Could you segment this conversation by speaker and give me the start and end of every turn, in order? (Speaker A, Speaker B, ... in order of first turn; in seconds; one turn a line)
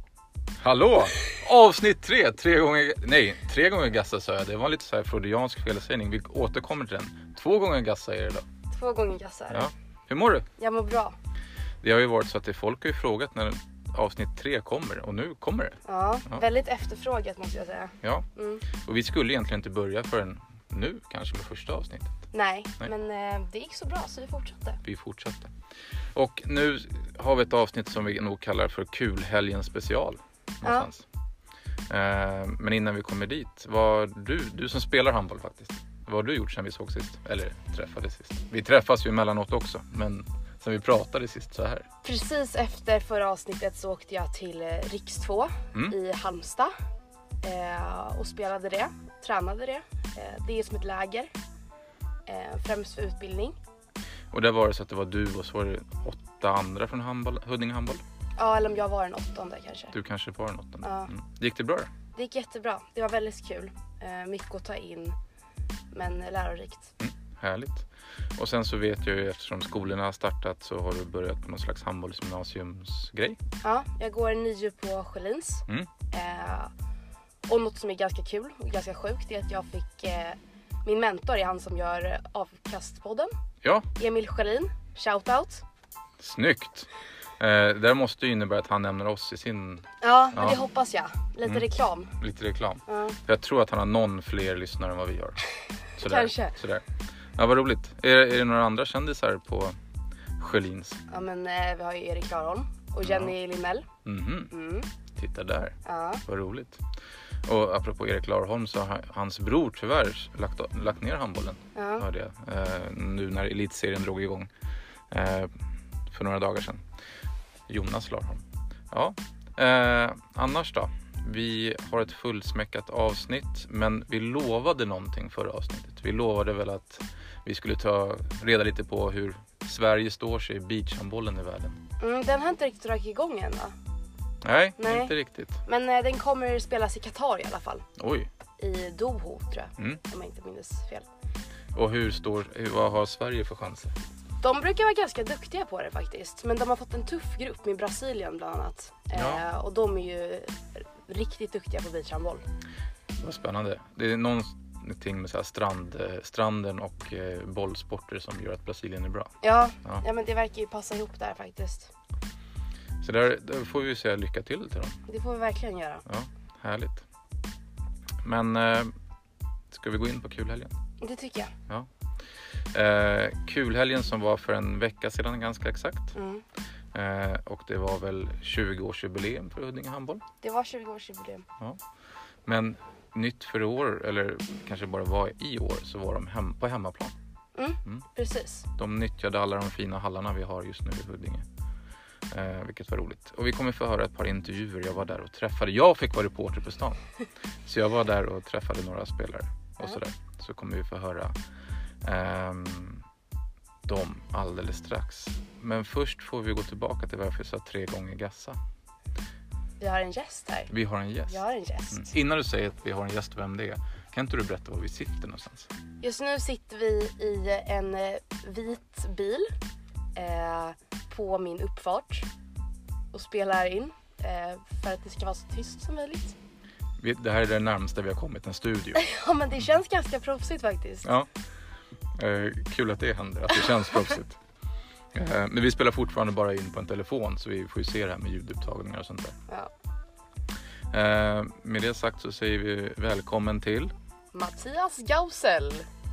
Speaker A: 0.6-8.4
Speaker B: 8.7-9.7
Speaker A: 9.5-10.5
Speaker B: 10.6-11.1
Speaker A: 11.8-16.4
Speaker B: 15.9-18.6
Speaker A: 18.0-22.1
Speaker B: 22.3-24.8
Speaker A: 24.8-25.5
Speaker A: 26.1-31.0
Speaker B: 30.6-30.9
Speaker A: 31.9-41.9
Speaker B: 42.0-46.7
Speaker B: 47.4-51.3
Speaker B: 52.3-53.5
Speaker A: 54.3-58.0
Speaker B: 58.4-60.0
Speaker A: 59.9-61.9
Speaker B: 60.8-61.1
Speaker B: 62.1-65.2
Speaker B: 65.9-66.9
Speaker A: 67.0-73.4
Speaker B: 73.6-76.7
Speaker B: 77.5-83.3
Speaker B: 84.0-85.6
Speaker A: 86.2-90.6
Speaker B: 90.0-92.1
Speaker A: 92.2-95.4
Speaker B: 92.9-93.2
Speaker A: 96.0-96.8
Speaker B: 96.0-96.5
Speaker A: 97.4-99.8
Speaker A: 100.4-101.0
Speaker B: 101.1-103.8
Speaker A: 103.0-103.3
Speaker A: 104.1-104.5
Speaker B: 104.5-104.9
Speaker A: 105.2-106.8
Speaker B: 105.8-106.2
Speaker A: 107.5-114.5
Speaker B: 111.8-112.0
Speaker A: 115.1-115.5
Speaker A: 116.1-116.8
Speaker A: 117.7-131.8
Speaker B: 132.0-133.7
Speaker A: 134.4-135.6
Speaker B: 134.8-135.1
Speaker B: 135.7-137.8
Speaker A: 138.0-138.3
Speaker B: 138.6-141.1
Speaker A: 141.8-143.9
Speaker B: 144.4-152.4
Speaker A: 149.1-149.4
Speaker A: 153.2-160.0
Speaker B: 159.4-161.9
Speaker A: 163.0-164.9
Speaker B: 165.1-166.0
Speaker A: 166.1-167.0
Speaker A: 168.2-168.9
Speaker A: 169.7-170.7
Speaker B: 171.0-171.5
Speaker A: 172.7-176.2
Speaker B: 176.1-176.4
Speaker A: 176.9-180.2
Speaker B: 180.4-181.4
Speaker A: 182.4-187.1
Speaker B: 187.6-188.6
Speaker A: 188.8-191.4
Speaker A: 192.3-197.0
Speaker A: 197.7-201.3
Speaker A: 202.0-203.0
Speaker A: 203.8-208.6
Speaker B: 209.8-210.7
Speaker A: 210.7-211.4
Speaker B: 211.3-212.1
Speaker A: 211.9-215.7
Speaker B: 216.0-219.5
Speaker B: 220.1-222.3
Speaker B: 223.1-226.3
Speaker A: 227.0-229.0
Speaker B: 228.9-231.1
Speaker A: 232.2-234.4
Speaker A: 235.1-239.3
Speaker A: 240.9-243.9
Speaker B: 244.3-245.9